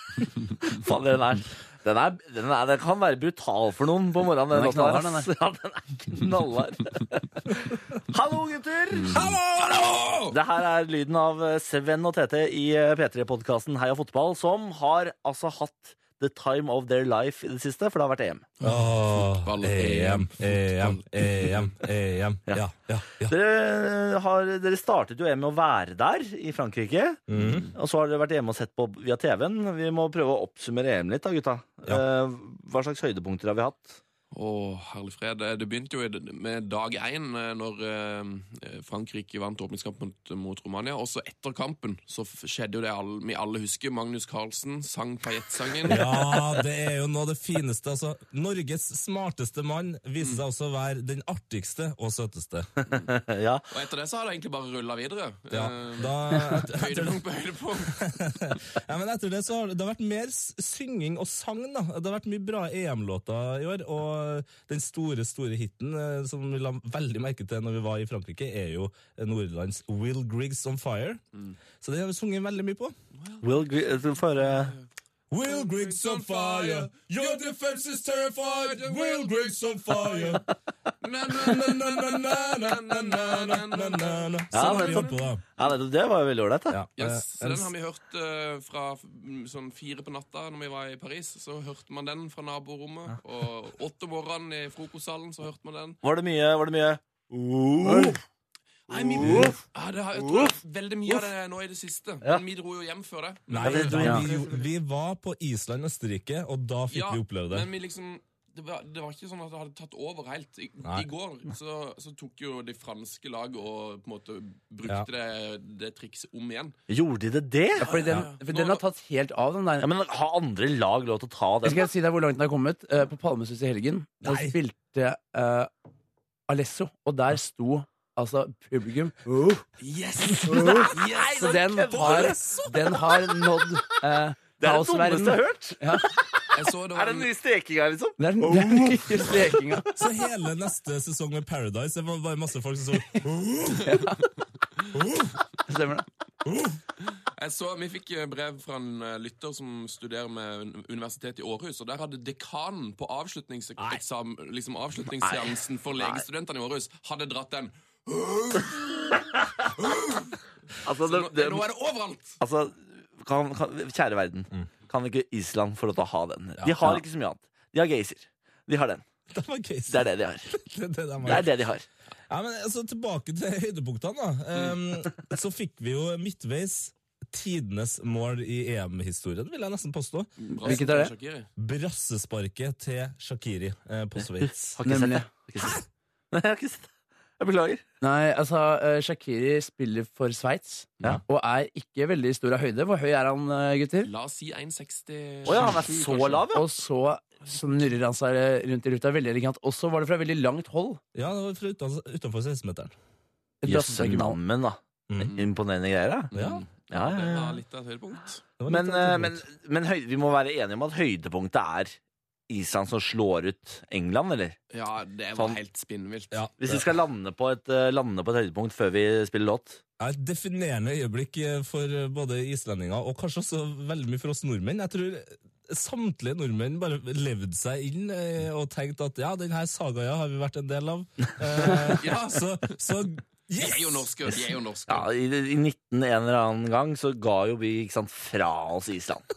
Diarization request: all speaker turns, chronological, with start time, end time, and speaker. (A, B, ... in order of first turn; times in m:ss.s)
0:00.2-0:09.2 A
0:04.5-0:05.3 B
0:09.1-0:10.3 C
0:09.1-0:09.4 D
0:10.3-0:18.5 A
0:18.6-0:21.7 C
0:18.6-0:23.3 D
0:23.2-0:34.0 A
0:27.3-0:27.7 D
0:27.4-0:27.7 C
0:34.3-0:46.5 C
0:45.8-0:52.7 D
0:52.8-0:53.6 A
0:53.7-0:58.0 C
0:55.5-0:57.2 D
0:57.7-1:11.2 D
1:11.8-1:12.9 D
1:13.2-1:13.5 C
1:13.4-1:14.7 A
1:14.3-1:14.8 C
1:15.3-1:20.4 D
1:15.5-1:17.4 C
1:18.6-1:19.5 C
1:20.1-1:20.4 C
1:21.0-1:25.3 C
1:21.3-1:25.4 D
1:24.5-1:26.8 A
1:26.7-1:27.7 D
1:27.0-1:36.0 C
1:36.0-1:38.2 A
1:38.9-1:44.6 C
1:38.9-1:39.6 A
1:39.2-1:39.5 D
1:40.2-1:40.5 A
1:43.5-1:47.7 D
1:43.6-1:44.4 A
1:46.9-1:56.8 C
1:56.9-1:58.1 A
1:57.8-1:59.9 B
1:57.9-1:58.8 C
1:59.8-2:01.9 A
2:01.6-2:05.7 B
2:04.2-2:04.6 D
2:06.5-2:09.7 B
2:09.8-2:12.1 C
2:10.4-2:16.1 B
2:10.6-2:12.3 A
2:11.6-2:13.1 D
2:14.6-2:19.9 A
2:16.5-2:17.3 C
2:18.2-2:19.9 B
2:19.9-2:24.0 D
2:23.7-2:24.3 B
2:24.9-2:25.4 D
2:25.7-2:26.0 B
2:26.4-2:26.8 D
2:27.2-2:42.4 C
2:35.2-2:36.2 A
2:40.8-2:41.7 A
2:42.4-2:49.0 A
2:46.6-2:47.0 D
2:49.3-2:51.5 D
2:49.9-2:50.5 A
2:51.2-2:51.8 A
2:52.3-3:00.8 D
3:00.4-3:01.5 C
3:00.6-3:01.1 B
3:01.6-3:04.8 D
3:04.6-3:06.9 A
3:04.8-3:05.3 B
3:07.4-3:07.8 A
3:08.0-3:14.1 B
3:14.0-3:16.5 C
3:15.4-3:16.6 A
3:16.5-3:21.0 B
3:21.1-3:22.9 D
3:23.6-3:24.4 B
3:23.6-3:26.3 A
3:25.1-3:25.3 D
3:26.3-3:26.6 D
3:26.3-3:28.4 C
3:26.9-3:27.6 A
3:28.6-3:29.4 D
3:28.7-3:32.0 A
3:32.5-3:34.6 A
3:34.7-3:36.4 C
3:36.3-3:36.8 D
3:36.6-3:39.8 A
3:40.0-3:54.4 D
3:51.6-3:52.7 C
3:53.6-3:55.1 C
3:54.9-3:59.2 A